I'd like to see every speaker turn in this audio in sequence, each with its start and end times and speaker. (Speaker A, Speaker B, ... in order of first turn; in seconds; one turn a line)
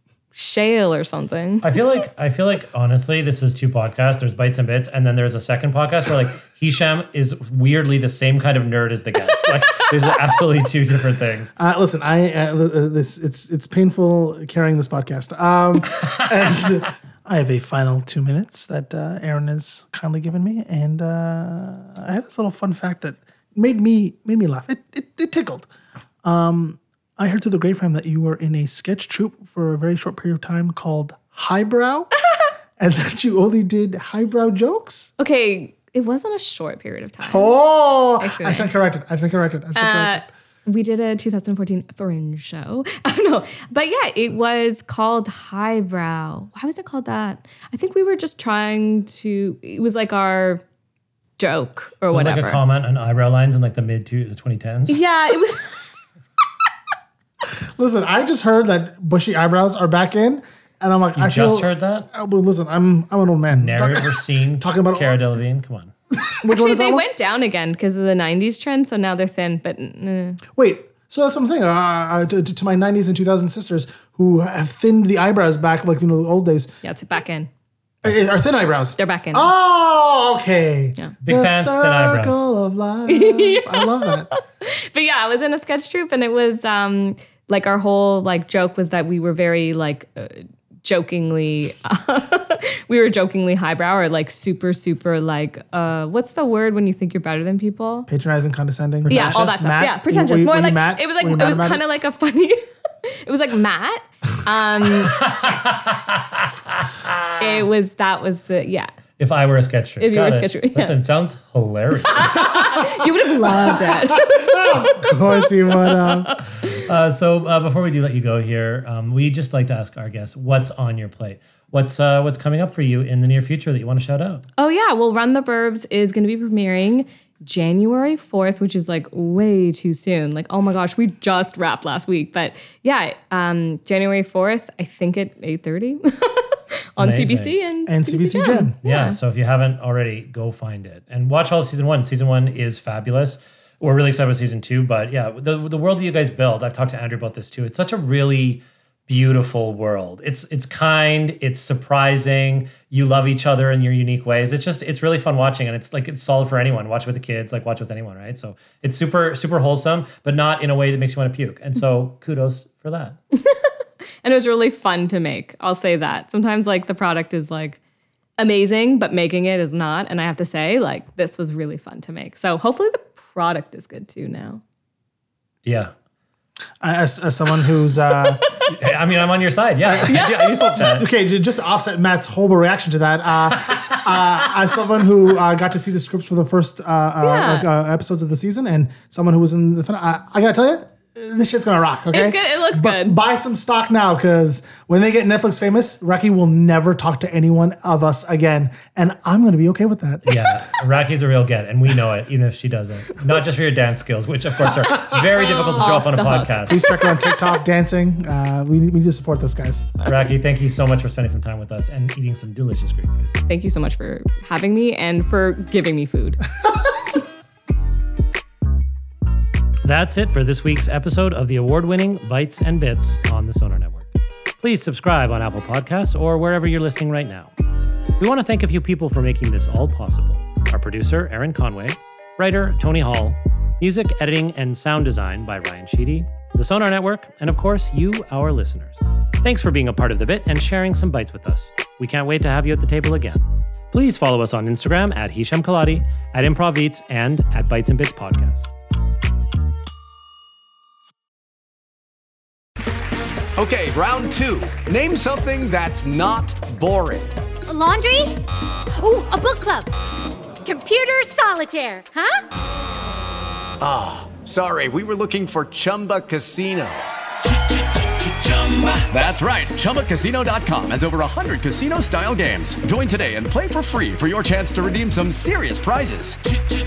Speaker A: 0.3-1.7
Speaker B: 1.6-11.5
Speaker C: 11.6-25.7
Speaker C: 26.2-32.1
Speaker C: 32.8-35.1
Speaker A: 35.2-37.5
Speaker C: 37.2-40.3
Speaker A: 38.2-38.7
Speaker A: 39.8-50.6
Speaker A: 51.4-52.6
Speaker B: 52.1-55.0
Speaker A: 54.9-55.9
Speaker C: 57.8-65.2
Speaker B: 61.1-62.1
Speaker B: 63.5-65.9
Speaker C: 66.2-67.0
Speaker A: 66.5-70.4
Speaker C: 70.5-76.7
Speaker A: 76.8-77.5
Speaker C: 78.0-84.3
Speaker A: 79.0-79.5
Speaker B: 81.2-82.4
Speaker A: 83.1-98.1
Speaker C: 98.1-101.8
Speaker B: 99.0-99.6
Speaker A: 99.1-106.1
Speaker B: 105.3-106.1
Speaker A: 107.4-108.9
Speaker B: 109.2-112.7
Speaker A: 110.0-110.9
Speaker A: 112.1-114.7
Speaker C: 113.4-116.3
Speaker A: 115.8-116.4
Speaker B: 116.7-124.4
Speaker A: 124.6-139.2
Speaker B: 137.0-137.5
Speaker C: 137.9-138.8
Speaker B: 138.8-163.2
Speaker A: 163.3-167.8
Speaker A: 168.4-174.6
Speaker B: 175.6-175.9
Speaker C: 176.8-178.4
Speaker B: 178.6-181.1
Speaker C: 179.8-200.4
Speaker A: 180.1-180.5
Speaker B: 183.7-184.0
Speaker A: 187.2-187.7
Speaker A: 192.1-193.2
Speaker B: 200.2-206.8
Speaker A: 205.4-207.4
Speaker C: 206.7-209.9
Speaker B: 210.0-213.3
Speaker A: 213.5-216.4
Speaker B: 219.8-224.1
Speaker B: 224.6-227.5
Speaker B: 228.2-248.7
Speaker D: 253.6-257.3
Speaker E: 257.7-258.4
Speaker E: 258.9-259.9
Speaker E: 260.6-262.4
Speaker D: 263.8-267.0
Speaker D: 268.4-276.4